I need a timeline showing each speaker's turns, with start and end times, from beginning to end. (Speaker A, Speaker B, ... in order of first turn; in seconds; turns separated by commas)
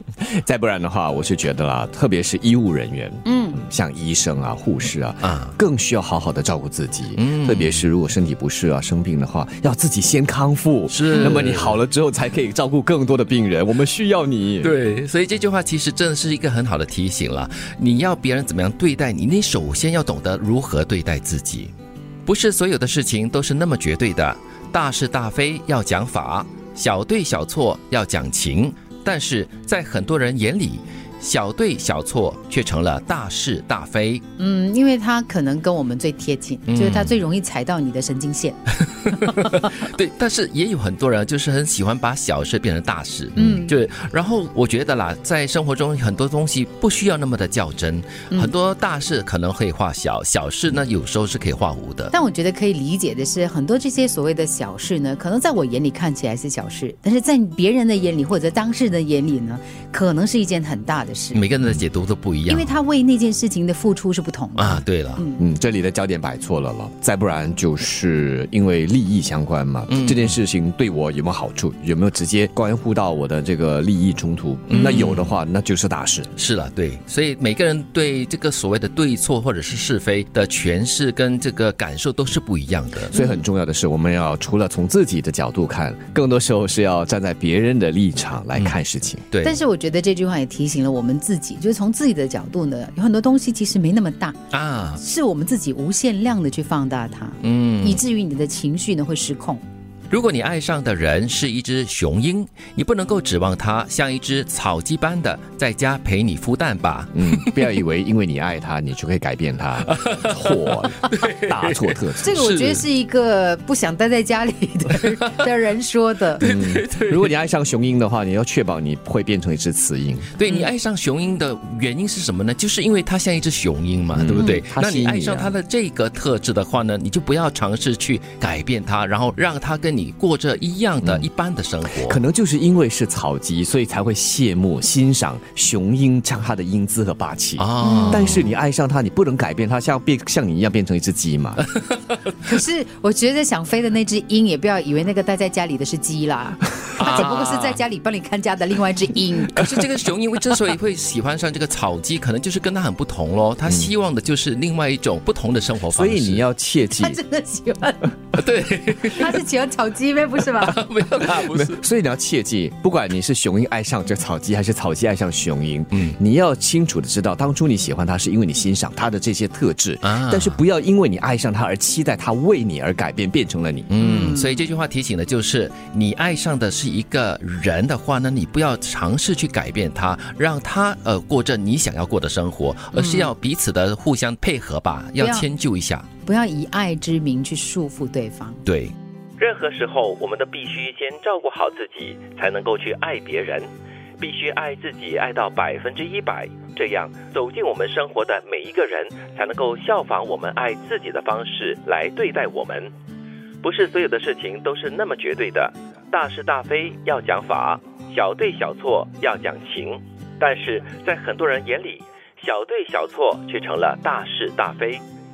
Speaker A: 0.2-14.7, Speaker B: 3.2-3.6, Speaker C: 5.2-5.5, Speaker C: 7.1-7.8, Speaker C: 10.9-11.8, Speaker C: 14.6-21.7, Speaker C: 22.2-34.2, Speaker B: 34.4-38.6, Speaker C: 36.7-37.2, Speaker C: 38.9-52.1, Speaker B: 39.1-39.6, Speaker B: 43.4-43.7, Speaker B: 52.1-61.4, Speaker C: 61.3-62.8, Speaker B: 62.5-65.4, Speaker C: 64.5-65.2, Speaker A: 65.4-76.3, Speaker C: 69.9-70.3, Speaker C: 74.7-75.3, Speaker C: 76.4-83.1, Speaker A: 83.1-89.2, Speaker B: 83.1-83.4, Speaker C: 89.3-89.6, Speaker B: 89.4-94.4, Speaker C: 94.5-95.0, Speaker B: 95.0-99.6, Speaker C: 97.4-98.0, Speaker C: 100.1-107.6, Speaker A: 107.1-112.5, Speaker C: 109.8-112.8, Speaker B: 112.2-116.4, Speaker C: 116.4-117.3, Speaker A: 116.4-120.3, Speaker C: 120.3-132.2, Speaker A: 124.1-125.5, Speaker A: 131.0-131.3, Speaker A: 131.9-141.6, Speaker C: 137.6-138.5, Speaker B: 137.8-138.5, Speaker C: 141.7-142.4, Speaker B: 142.4-149.7, Speaker C: 147.0-147.8, Speaker C: 149.5-156.4, Speaker A: 153.7-153.9, Speaker A: 155.9-157.2, Speaker B: 156.9-158.2, Speaker C: 158.3-159.4, Speaker B: 159.0-160.8, Speaker C: 160.6-161.8, Speaker A: 161.2-173.9, Speaker C: 170.0-170.6, Speaker C: 173.9-186.1, Speaker B: 174.0-174.6, Speaker B: 182.9-183.3, Speaker B: 185.2-185.5, Speaker B: 186.2-188.6, Speaker C: 188.7-193.7, Speaker C: 194.2-202.9, Speaker C: 203.6-215.0